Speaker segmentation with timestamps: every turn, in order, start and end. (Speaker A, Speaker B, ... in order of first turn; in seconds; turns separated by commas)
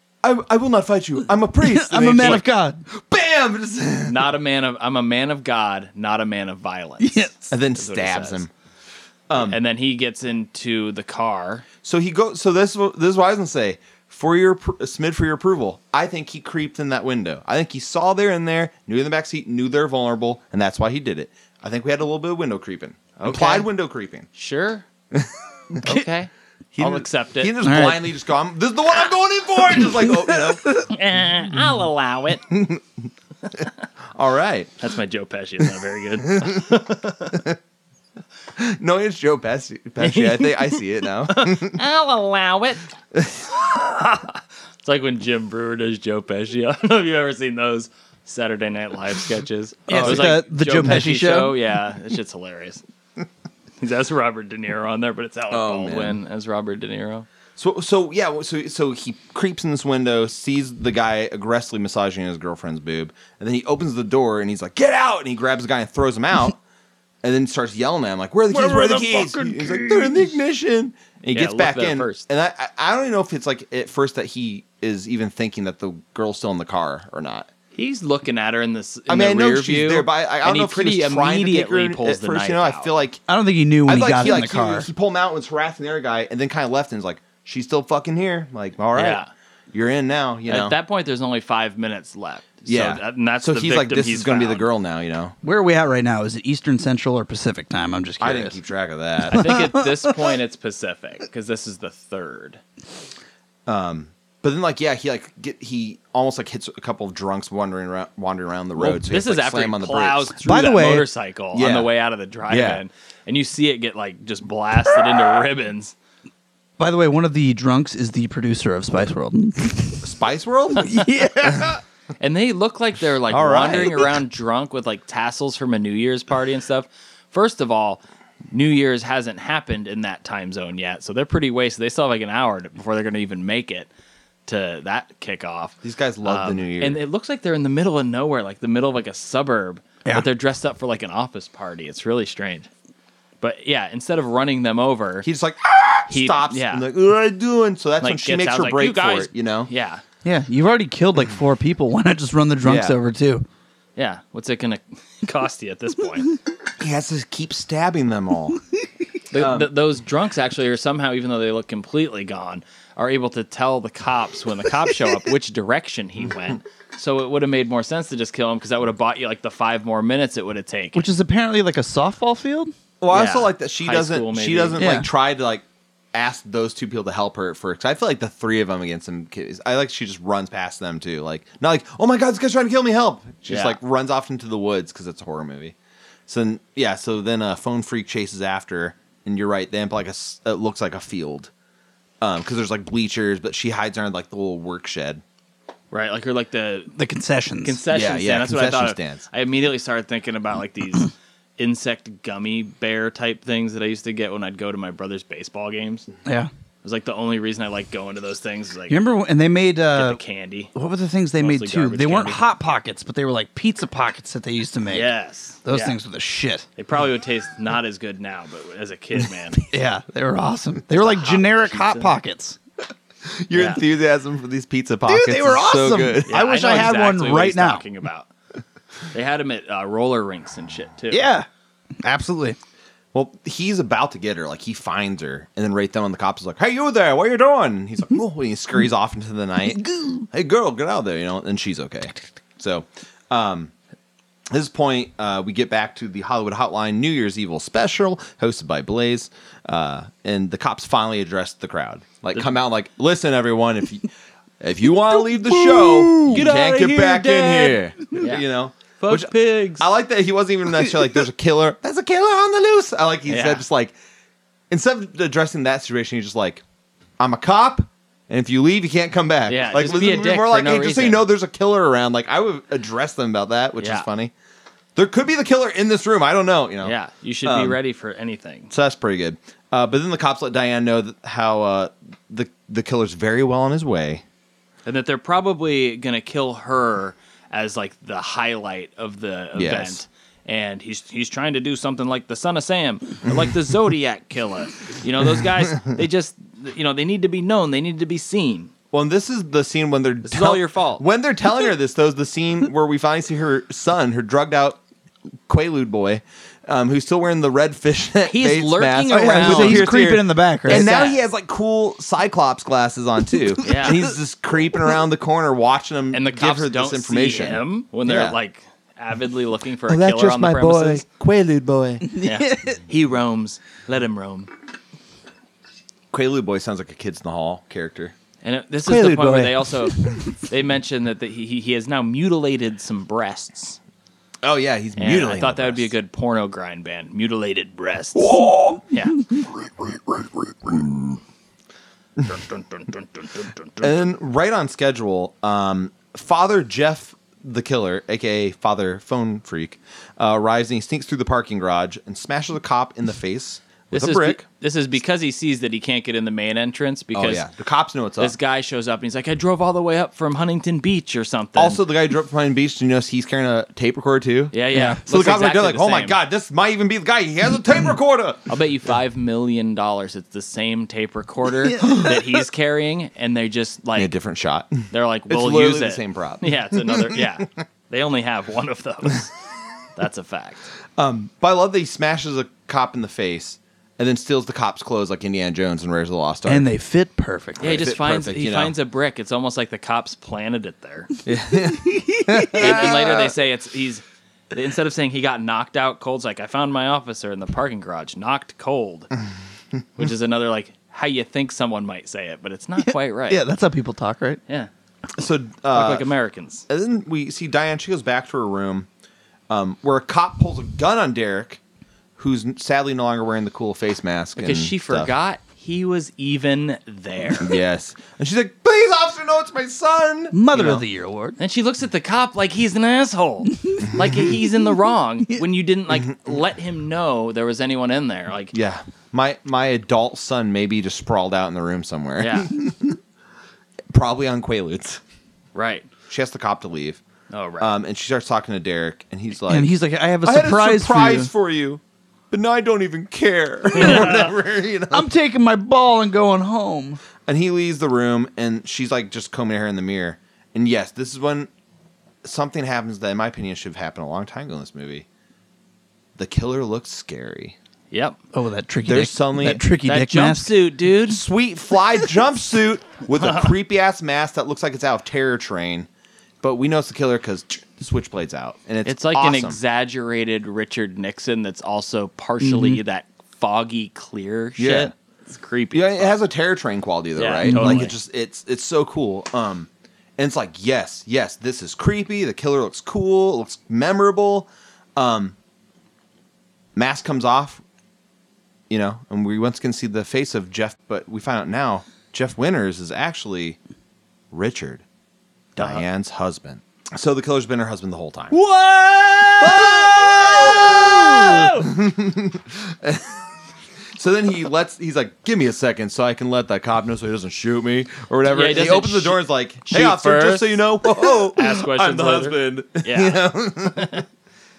Speaker A: 0.2-4.3, Speaker B: 1.6-2.8, Speaker C: 4.1-8.4, Speaker B: 7.0-7.5, Speaker A: 7.5-8.5, Speaker A: 9.3-9.6, Speaker C: 9.4-11.6, Speaker A: 11.8-24.3, Speaker C: 23.2-23.7, Speaker C: 24.3-24.8, Speaker A: 25.1-26.1, Speaker C: 25.8-27.6, Speaker A: 26.7-30.8, Speaker B: 27.6-28.0, Speaker C: 30.9-32.4, Speaker A: 32.5-32.8, Speaker A: 34.1-34.7, Speaker C: 34.8-37.4, Speaker A: 36.3-36.6, Speaker A: 38.5-41.8, Speaker C: 40.0-42.9, Speaker A: 43.1-43.5, Speaker C: 43.5-52.8, Speaker B: 49.9-51.6, Speaker A: 49.9-51.0, Speaker C: 53.8-57.3, Speaker A: 55.5-56.2, Speaker A: 57.5-66.6, Speaker A: 67.2-77.5, Speaker B: 68.5-70.3, Speaker C: 71.3-72.3, Speaker C: 77.7-82.9, Speaker A: 79.1-83.2, Speaker B: 83.3-84.9, Speaker A: 83.8-90.7, Speaker C: 88.9-89.3, Speaker C: 90.5-94.7, Speaker A: 92.7-95.3, Speaker B: 95.4-98.6, Speaker A: 98.2-99.6, Speaker C: 99.3-102.6, Speaker B: 99.3-100.3, Speaker A: 103.7-110.3, Speaker C: 108.8-115.9, Speaker B: 110.4-111.0, Speaker A: 111.5-111.9, Speaker A: 112.5-112.8, Speaker B: 116.8-120.0, Speaker A: 120.0-121.8, Speaker B: 120.8-121.8, Speaker C: 122.2-133.9, Speaker A: 123.3-124.2, Speaker C: 134.5-142.7, Speaker A: 135.8-137.0, Speaker C: 143.4-145.2, Speaker A: 145.2-149.7, Speaker C: 146.1-146.8, Speaker C: 148.0-150.0, Speaker B: 150.2-153.4, Speaker A: 152.6-152.9, Speaker C: 154.0-156.3, Speaker A: 156.8-158.6, Speaker C: 159.3-171.1, Speaker A: 159.3-159.7, Speaker B: 170.9-172.7, Speaker A: 173.0-185.7, Speaker C: 173.1-174.8, Speaker B: 174.8-175.1, Speaker C: 183.5-183.8, Speaker A: 186.3-191.5, Speaker A: 192.2-195.2, Speaker C: 195.9-196.9, Speaker B: 196.9-197.8, Speaker C: 197.6-206.1, Speaker A: 197.9-199.2, Speaker C: 206.8-209.0, Speaker B: 208.9-210.2, Speaker C: 209.9-210.7, Speaker B: 210.7-215.1, Speaker C: 211.4-212.4, Speaker C: 214.9-216.0, Speaker B: 215.6-216.7, Speaker C: 216.8-219.7, Speaker B: 219.7-222.6, Speaker C: 220.9-222.2, Speaker A: 223.2-226.4, Speaker C: 223.5-223.8, Speaker B: 225.1-227.8, Speaker C: 226.3-228.3, Speaker C: 229.1-231.3, Speaker B: 231.1-231.4, Speaker B: 232.0-232.6, Speaker A: 233.1-243.7, Speaker B: 239.8-240.2, Speaker A: 244.5-254.1, Speaker A: 254.6-263.9, Speaker B: 255.4-256.4, Speaker C: 256.2-258.4, Speaker C: 259.0-259.9, Speaker C: 263.3-263.6, Speaker A: 264.7-266.6, Speaker A: 267.2-274.3, Speaker C: 269.5-271.2, Speaker C: 273.8-274.1, Speaker A: 274.9-277.8, Speaker C: 276.8-278.7, Speaker A: 278.7-284.2, Speaker C: 284.8-298.7, Speaker A: 289.5-290.0, Speaker A: 298.9-304.8, Speaker C: 300.2-301.0, Speaker A: 305.5-318.4, Speaker C: 308.2-309.9, Speaker B: 309.2-310.9, Speaker C: 310.7-311.2, Speaker C: 313.6-314.0, Speaker C: 316.1-321.0, Speaker A: 319.9-322.1, Speaker B: 322.1-322.8, Speaker C: 322.2-324.5, Speaker A: 326.1-328.1, Speaker C: 328.4-333.8, Speaker A: 328.9-329.6, Speaker A: 334.4-335.9, Speaker C: 335.0-339.2, Speaker A: 338.2-338.8, Speaker A: 339.9-341.2, Speaker C: 342.2-344.0, Speaker A: 343.8-354.4, Speaker C: 353.9-357.5, Speaker A: 357.1-358.3, Speaker C: 358.2-361.8, Speaker A: 361.6-368.4, Speaker C: 364.5-366.2, Speaker B: 364.7-365.0, Speaker C: 368.5-374.1, Speaker B: 371.7-372.2, Speaker A: 373.9-377.2, Speaker C: 374.9-379.3, Speaker C: 379.9-380.7, Speaker A: 381.0-386.7, Speaker B: 386.5-387.9, Speaker A: 387.6-388.7, Speaker C: 387.6-391.1, Speaker A: 391.2-393.3, Speaker B: 391.7-392.8, Speaker C: 392.5-399.1, Speaker C: 399.9-403.4, Speaker B: 402.8-404.4, Speaker A: 405.1-406.1, Speaker C: 405.7-406.6, Speaker A: 406.7-408.9, Speaker A: 409.5-411.6, Speaker A: 412.2-415.1, Speaker C: 414.4-417.6, Speaker A: 417.4-420.8, Speaker B: 420.3-421.4, Speaker C: 421.4-428.5, Speaker B: 423.7-424.3, Speaker A: 428.5-433.0, Speaker C: 432.2-432.5, Speaker A: 433.9-435.0, Speaker C: 435.5-435.9, Speaker A: 436.1-437.0, Speaker C: 437.3-437.7, Speaker A: 437.6-439.7, Speaker B: 439.5-441.3, Speaker A: 440.2-445.1, Speaker C: 443.7-444.3, Speaker B: 443.8-444.1, Speaker B: 444.9-447.0, Speaker A: 447.2-451.5, Speaker A: 452.2-455.1, Speaker A: 456.1-457.6, Speaker C: 457.9-458.2, Speaker B: 458.3-460.6, Speaker A: 458.8-459.6, Speaker C: 459.8-461.2, Speaker A: 461.1-465.9, Speaker C: 463.1-463.5, Speaker A: 466.4-469.6, Speaker C: 468.8-476.2, Speaker B: 472.4-472.8, Speaker A: 474.6-474.9, Speaker A: 475.7-485.4, Speaker C: 477.1-477.9, Speaker B: 477.4-477.9, Speaker A: 486.8-487.6, Speaker A: 488.7-493.6, Speaker A: 494.3-494.8, Speaker A: 495.5-498.4, Speaker C: 498.3-501.7, Speaker A: 499.4-503.2, Speaker A: 503.9-514.0, Speaker C: 508.3-514.0